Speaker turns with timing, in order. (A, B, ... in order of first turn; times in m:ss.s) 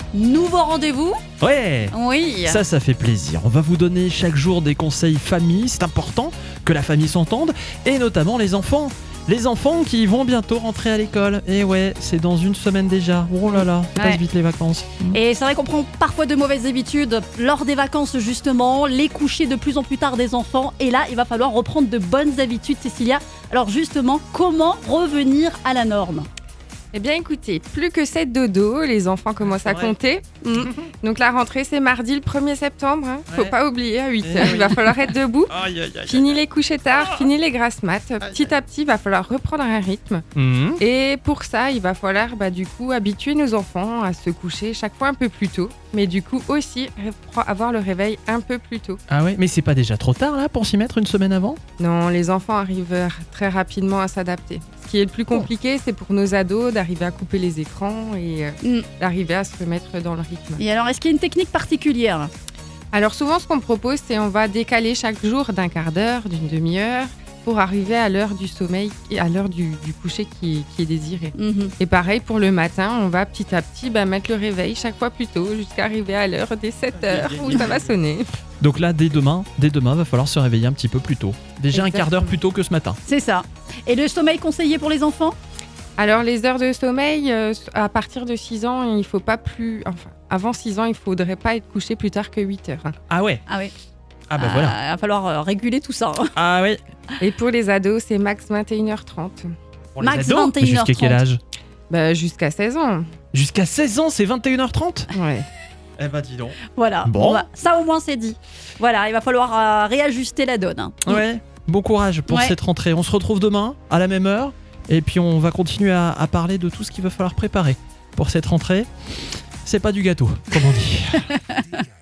0:00.1-0:01.2 A
0:01.4-0:01.9 B
0:01.9-0:02.6 A
0:02.4-0:15.2 B
0:15.1-0:26.3 A
0:26.9-0:35.5 C
0:29.4-0:29.9 B
0:30.6-0:30.9 B
0:34.2-0:36.4 B
0:36.1-0:40.2 C
0:36.9-0:37.3 B
0:40.3-0:40.8 B
0:40.8-0:49.0 C
0:49.1-0:51.6 B
0:51.8-1:00.6 C
1:00.6-1:02.3 A
1:02.9-1:18.3 C
1:11.3-1:11.7 A
1:16.9-1:17.9 B
1:18.6-1:23.0 B
1:21.7-1:22.3 C
1:23.0-1:25.4 A
1:26.0-1:32.9 C
1:33.1-1:33.4 B
1:33.5-1:33.7 A
1:34.3-1:34.8 B
1:34.4-1:36.3 A
1:36.4-1:36.8 B
1:37.2-1:39.5 C
1:40.0-1:41.4 B
1:40.0-1:41.2 A
1:41.9-1:43.1 C
1:43.3-1:45.1 B
1:45.1-1:45.5 C
1:46.0-1:47.5 B
1:46.7-1:51.2 A
1:51.0-1:58.9 B
1:52.3-1:52.5 A
1:59.6-2:01.3 B
2:01.3-2:01.6 A